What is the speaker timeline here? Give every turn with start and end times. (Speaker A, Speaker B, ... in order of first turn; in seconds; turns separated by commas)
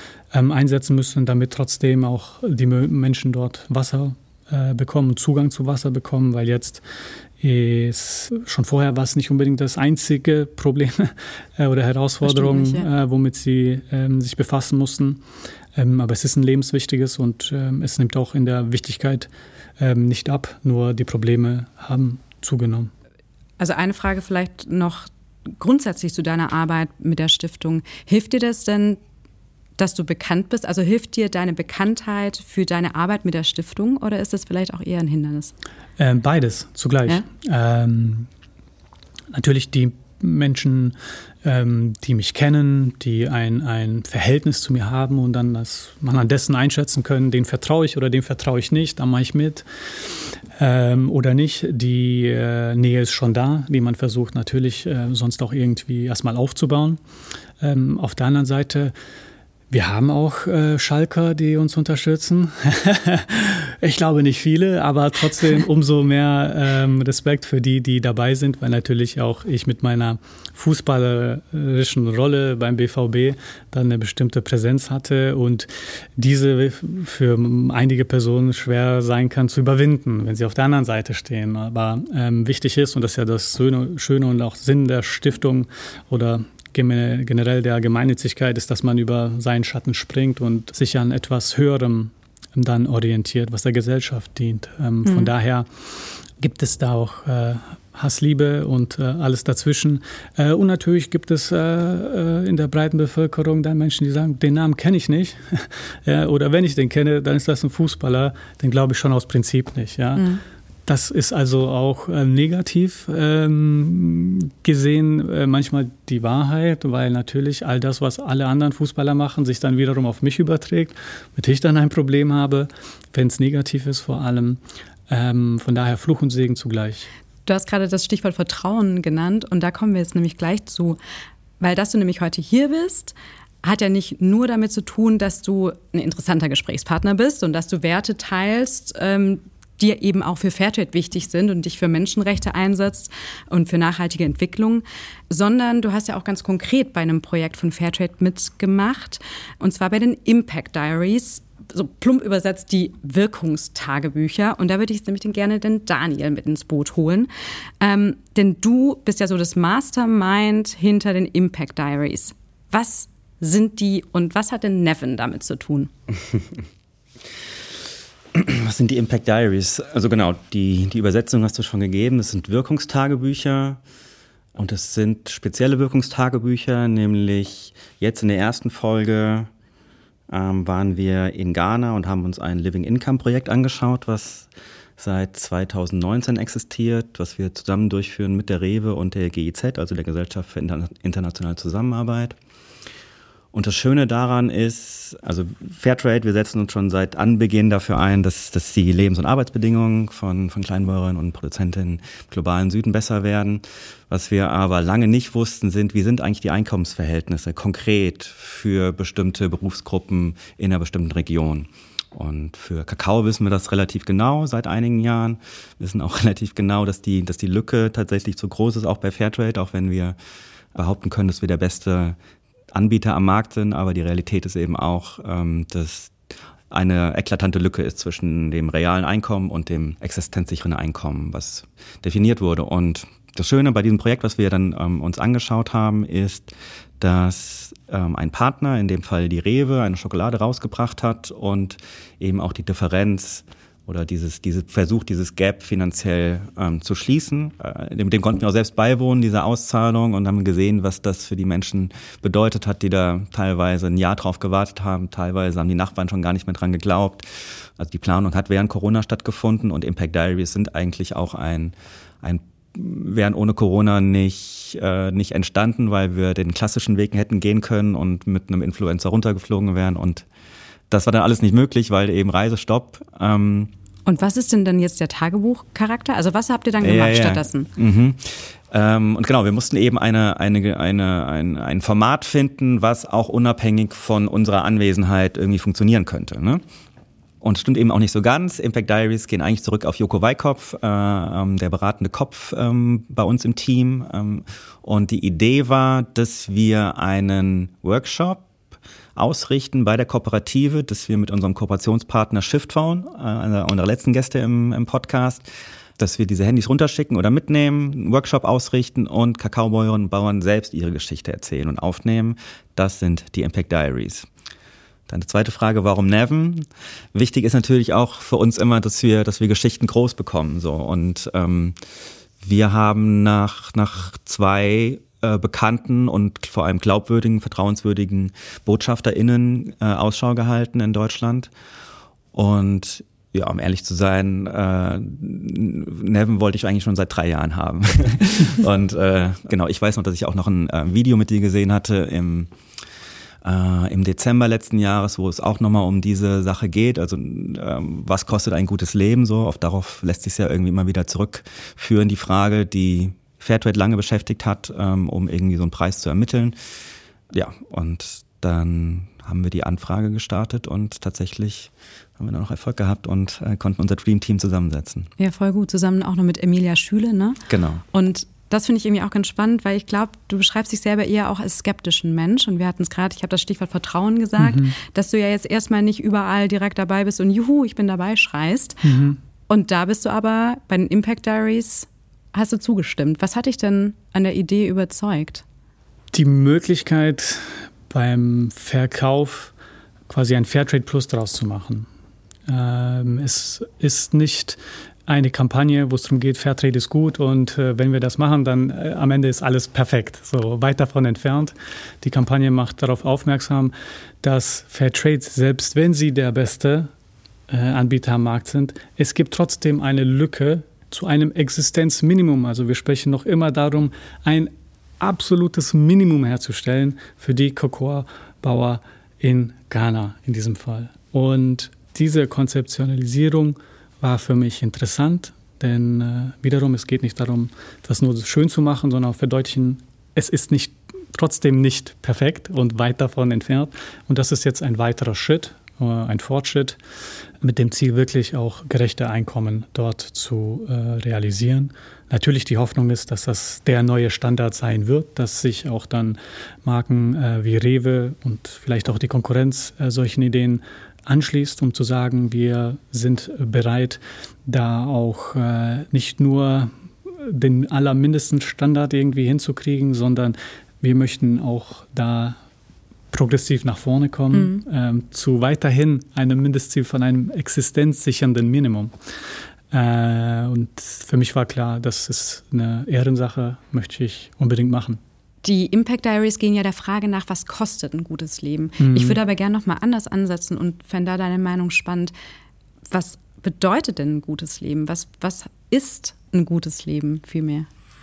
Speaker A: 0.3-6.8, Speaker A: 7.4-15.2, Speaker B: 12.2-12.9, Speaker A: 15.7-22.9, Speaker B: 23.6-25.1, Speaker B: 25.6-29.0, Speaker B: 29.8-35.5, Speaker A: 36.0-38.3, Speaker A: 39.3-57.0, Speaker A: 57.6-58.9, Speaker A: 59.7-110.3, Speaker B: 95.0-95.3, Speaker B: 110.2-110.4, Speaker A: 110.8-127.1, Speaker B: 127.5-131.0, Speaker B: 131.6-157.3, Speaker B: 157.8-165.9, Speaker C: 168.3-173.8, Speaker C: 174.5-179.5, Speaker C: 180.3-192.3, Speaker C: 193.5-220.2, Speaker C: 220.7-222.2, Speaker C: 222.7-226.1, Speaker C: 226.7-257.2, Speaker C: 257.8-270.2, Speaker C: 270.9-273.7, Speaker B: 274.1-277.7, Speaker C: 276.8-286.6, Speaker C: 287.4-298.5, Speaker C: 299.1-305.4, Speaker C: 306.0-314.3, Speaker C: 315.1-321.8, Speaker C: 322.4-331.5, Speaker C: 332.3-342.5, Speaker C: 343.4-356.6, Speaker C: 357.3-365.1, Speaker B: 365.2-367.4, Speaker C: 367.5-367.8, Speaker B: 367.9-378.9, Speaker A: 374.4-374.7, Speaker A: 378.8-379.2, Speaker B: 379.5-385.4, Speaker A: 386.1-389.5, Speaker A: 390.1-391.9, Speaker A: 392.5-406.9, Speaker A: 407.5-436.8, Speaker A: 437.4-462.4, Speaker A: 463.1-468.9, Speaker B: 464.3-464.6, Speaker A: 469.7-475.0, Speaker B: 475.4-482.1, Speaker A: 478.8-479.2, Speaker B: 482.9-487.7